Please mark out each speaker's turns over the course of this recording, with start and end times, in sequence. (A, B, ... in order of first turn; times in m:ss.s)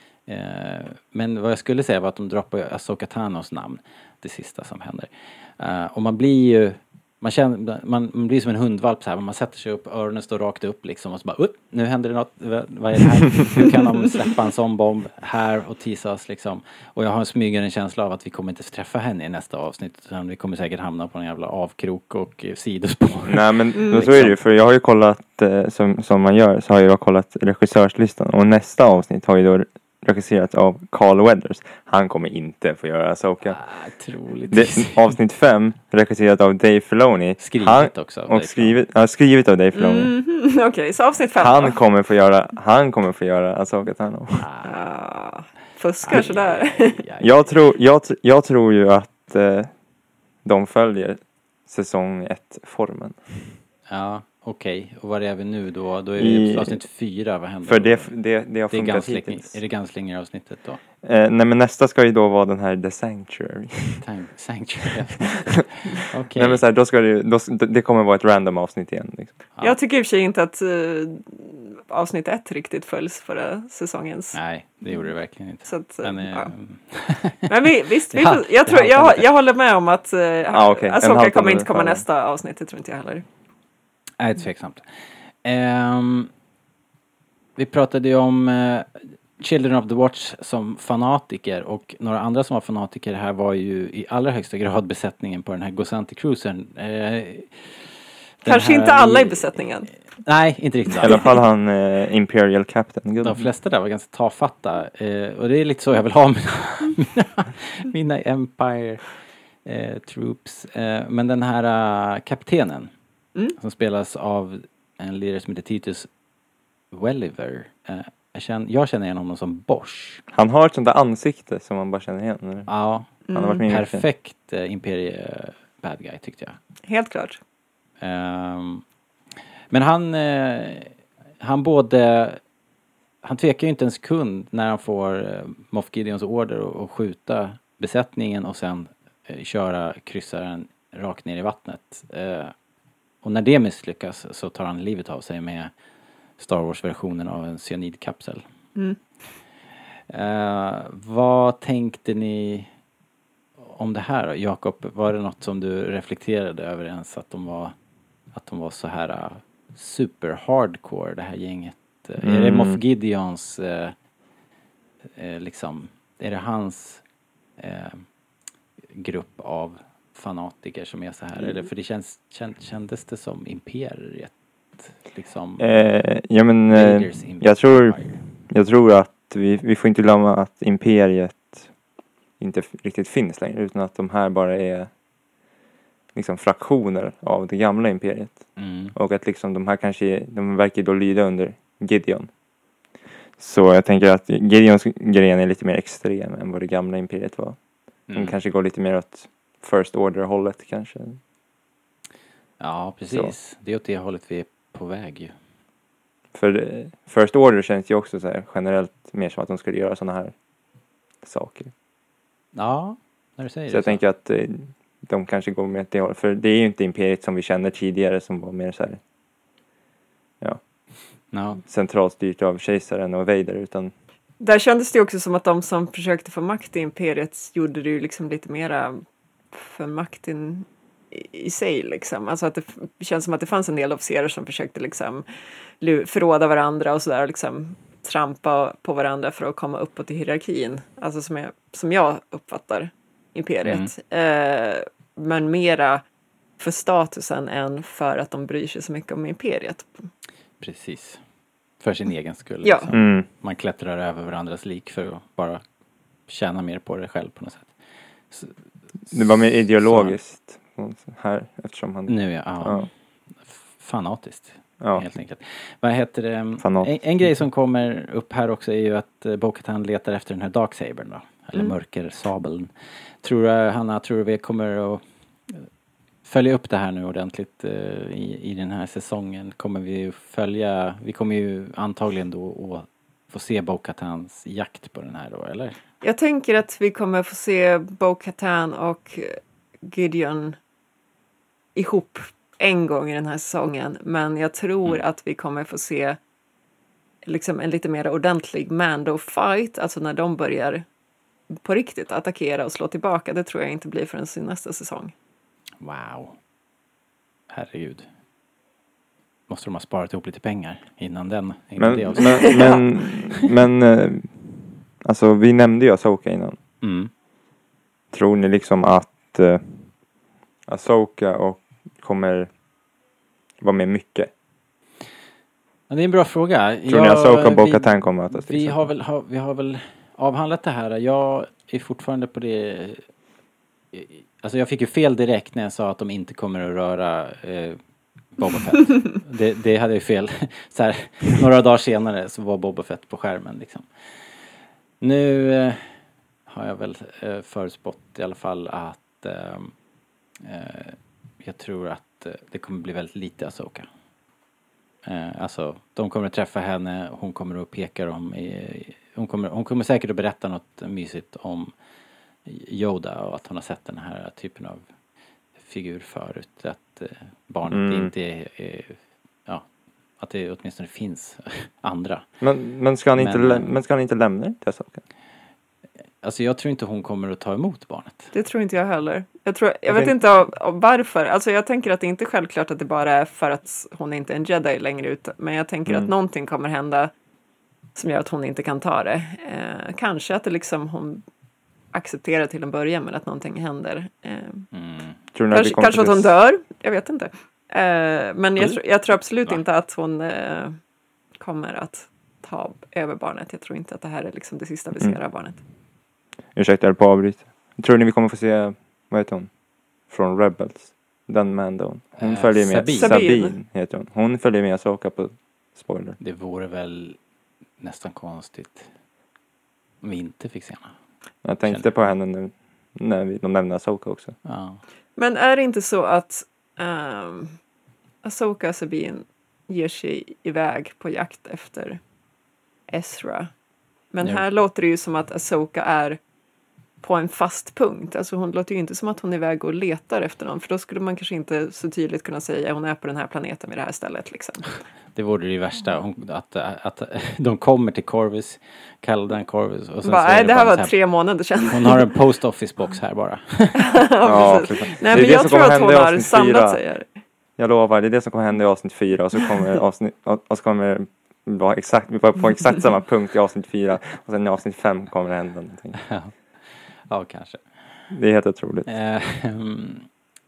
0:00.2-0:24.4 A
0:23.2-0:33.6 B
0:23.8-0:24.1 C
0:33.4-0:35.2 A
0:34.5-0:40.1 B
0:37.4-0:38.8 A
0:39.7-0:41.8 C
0:41.4-0:44.4 B
0:44.3-0:44.7 A
0:44.6-0:47.0 C
0:46.0-0:47.5 A
0:47.2-0:49.7 B
0:50.4-0:53.6 B
0:53.9-0:58.1 A
0:56.2-0:56.8 B
0:57.6-0:59.6 B
0:58.7-1:00.8 A
1:01.0-1:04.0 B
1:04.0-1:06.6 A
1:06.3-1:09.4 B
1:09.6-1:15.0 C
1:14.3-1:17.5 A
1:15.6-1:16.5 C
1:17.4-1:23.2 C
1:18.1-1:19.3 A
1:20.5-1:22.0 B
1:24.2-1:26.3 A
1:27.6-1:39.5 A
1:38.4-1:39.9 C
1:40.2-1:41.2 A
1:41.0-1:43.5 B
1:43.2-1:49.1 A
1:49.6-1:52.9 A
1:53.6-1:56.1 A
1:56.9-2:00.2 A
2:00.3-2:04.0 B
2:02.7-2:03.1 A
2:03.3-2:03.6 C
2:03.7-2:06.6 A
2:06.9-2:07.4 C
2:08.0-2:08.8 A
2:09.7-2:12.4 A
2:13.2-2:22.5 A
2:23.2-2:25.7 A
2:26.4-2:28.4 A
2:30.1-2:32.7 A
2:33.6-2:37.7 A
2:38.3-2:43.9 A
2:42.2-2:42.8 B
2:45.0-2:47.0 A
2:47.6-2:48.1 A
2:48.9-2:55.8 A
2:55.6-3:01.7 B
2:56.7-2:58.2 A
3:02.4-3:04.9 B
3:06.1-3:12.3 B
3:08.6-3:08.9 A
3:13.4-3:21.2 B
3:18.1-3:18.4 A
3:22.6-3:25.3 A
3:26.3-3:30.3 B
3:31.2-3:31.7 B
3:32.5-3:34.0 A
3:33.7-3:39.0 B
3:41.3-3:41.6 A
3:41.6-3:43.9 B
3:44.4-3:49.0 C
3:49.5-3:55.2 C
3:55.8-4:06.0 C
4:03.6-4:03.9 A
4:06.6-4:10.1 C
4:10.6-4:11.2 A
4:11.8-4:15.6 A
4:12.6-4:12.9 C
4:12.9-4:13.3 B
4:16.3-4:17.7 A
4:18.3-4:20.2 A
4:19.1-4:22.9 B
4:22.1-4:22.9 A
4:23.4-4:32.7 A
4:24.8-4:25.0 B
4:26.6-4:26.9 B
4:33.2-4:35.7 A
4:36.2-4:45.8 A
4:46.0-4:50.6 C
4:51.8-4:56.2 C
4:57.2-5:00.8 C
5:01.5-5:05.1 C
5:05.8-5:06.4 A
5:07.5-5:08.1 A
5:09.5-5:12.8 A
5:11.8-5:16.6 B
5:12.2-5:12.8 C
5:16.8-5:17.1 A
5:18.1-5:19.9 B
5:20.7-5:22.5 B
5:23.6-5:24.3 B
5:25.9-5:33.1 A
5:26.9-5:28.8 B
5:33.9-5:37.8 A
5:38.3-5:43.9 A
5:45.0-5:45.8 A
5:46.5-5:49.7 A
5:50.4-5:53.9 A
5:55.0-6:01.7 A
6:02.4-6:04.8 A
6:05.6-6:09.7 A
6:07.7-6:08.1 B
6:10.2-6:12.3 A
6:12.4-6:15.0 B
6:13.2-6:13.8 A
6:16.2-6:18.3 A
6:18.3-6:27.1 C
6:19.9-6:20.1 B
6:25.9-6:26.1 B
6:28.0-6:31.2 C
6:31.9-6:34.7 C
6:34.7-6:35.2 A
6:35.3-6:36.3 B
6:35.5-6:40.8 C
6:41.4-6:45.6 C
6:46.5-6:49.5 B
6:50.1-6:56.2 B
6:52.2-6:53.2 A
6:53.0-6:53.6 C
6:56.2-6:57.2 A
6:57.8-6:58.9 A
7:00.0-7:00.9 A
7:01.4-7:04.3 B
7:01.6-7:01.9 A
7:04.4-7:04.8 A
7:05.2-7:07.6 C
7:08.2-7:12.0 C
7:12.9-7:13.5 C
7:14.1-7:16.2 C
7:17.0-7:24.8 C
7:25.1-7:31.0 A
7:30.0-7:32.1 C
7:31.7-7:33.8 A
7:33.8-7:37.1 C
7:34.2-7:36.8 B
7:37.6-7:46.0 B
7:46.0-7:47.6 A
7:48.1-7:48.9 B
7:48.9-7:50.1 A